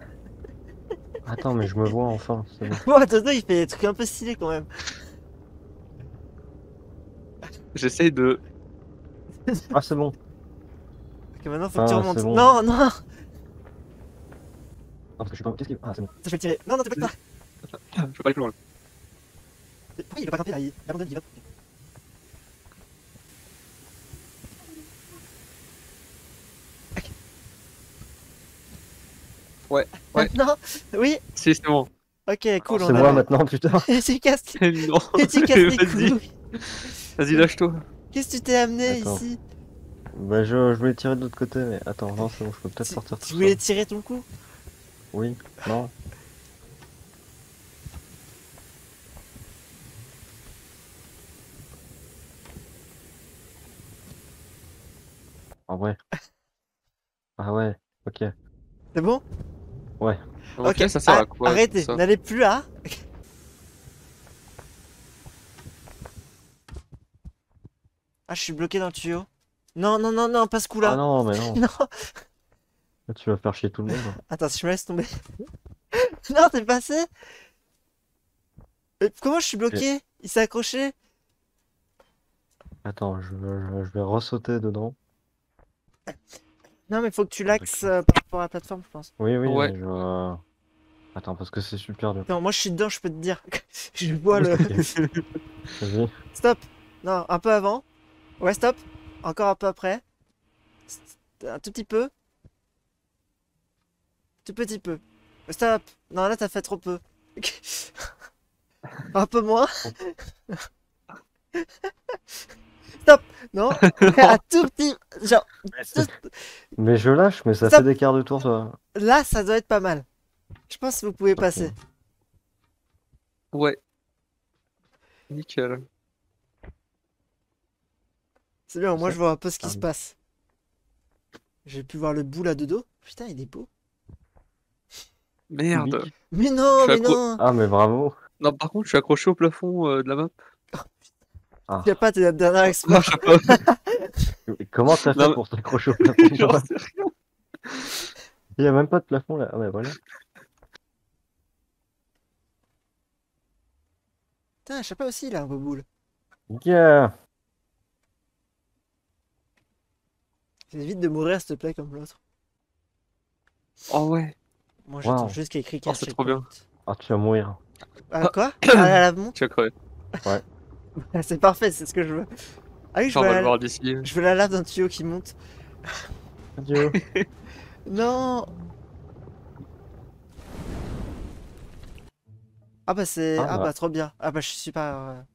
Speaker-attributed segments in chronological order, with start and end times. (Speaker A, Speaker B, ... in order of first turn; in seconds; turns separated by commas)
Speaker A: 1.2-2.8, Speaker B: 2.7-4.7, Speaker C: 7.7-8.4, Speaker A: 9.7-10.2, Speaker B: 11.4-12.9, Speaker A: 11.8-12.5, Speaker A: 15.2-16.1, Speaker B: 16.2-17.1, Speaker C: 17.9-18.5, Speaker B: 20.0-21.4, Speaker C: 29.7-30.3, Speaker B: 30.1-31.2, Speaker C: 31.4-31.9, Speaker B: 32.3-36.3, Speaker C: 32.7-33.2, Speaker A: 32.7-33.9, Speaker C: 34.6-37.9, Speaker B: 38.1-39.4, Speaker A: 38.9-39.2, Speaker A: 40.1-43.6, Speaker B: 42.8-44.3, Speaker A: 45.1-45.9, Speaker A: 55.7-56.0, Speaker A: 57.4-58.3, Speaker B: 58.9-59.2, Speaker C: 60.6-62.0, Speaker B: 60.6-63.0, Speaker B: 68.3-71.0, Speaker A: 70.8-71.6, Speaker B: 71.5-71.9, Speaker A: 73.1-74.2, Speaker B: 74.3-75.2, Speaker B: 75.9-77.1, Speaker B: 79.0-80.9, Speaker A: 82.8-85.0, Speaker B: 86.9-89.1, Speaker A: 87.5-87.9, Speaker A: 89.2-90.4, Speaker C: 89.4-89.7, Speaker A: 91.1-92.3, Speaker B: 92.3-94.7, Speaker A: 94.4-94.8, Speaker C: 94.8-95.2, Speaker A: 95.8-96.1, Speaker B: 96.3-97.8, Speaker B: 98.4-100.0, Speaker B: 100.9-102.1, Speaker B: 104.4-108.1, Speaker B: 109.1-110.6, Speaker B: 113.0-116.3, Speaker C: 113.8-114.2, Speaker A: 115.7-116.1, Speaker A: 116.8-118.8, Speaker B: 118.9-120.0, Speaker B: 120.7-121.7, Speaker A: 121.3-121.7, Speaker C: 123.5-123.8, Speaker C: 125.3-125.8, Speaker B: 128.7-130.1, Speaker A: 129.0-129.9, Speaker B: 131.6-133.7, Speaker C: 135.5-136.1, Speaker A: 135.7-136.1, Speaker B: 136.3-137.4, Speaker C: 136.8-137.2, Speaker A: 137.4-138.1, Speaker C: 138.4-140.3, Speaker A: 141.7-142.0, Speaker B: 141.8-144.3, Speaker C: 142.6-143.6, Speaker A: 144.5-146.7, Speaker C: 145.1-145.4, Speaker C: 146.0-147.1, Speaker C: 147.6-148.1, Speaker A: 148.6-149.9, Speaker B: 154.7-155.8, Speaker A: 156.5-157.1, Speaker B: 160.7-162.2, Speaker C: 163.9-164.3, Speaker B: 164.8-166.6, Speaker A: 165.0-165.4, Speaker C: 165.8-166.5, Speaker A: 166.9-167.6, Speaker B: 168.1-169.3, Speaker C: 168.2-169.7, Speaker B: 171.0-172.3, Speaker B: 172.9-175.3, Speaker C: 173.1-174.1, Speaker A: 176.6-177.0, Speaker C: 176.8-177.2, Speaker B: 177.8-178.5, Speaker B: 182.8-185.2, Speaker A: 183.4-183.7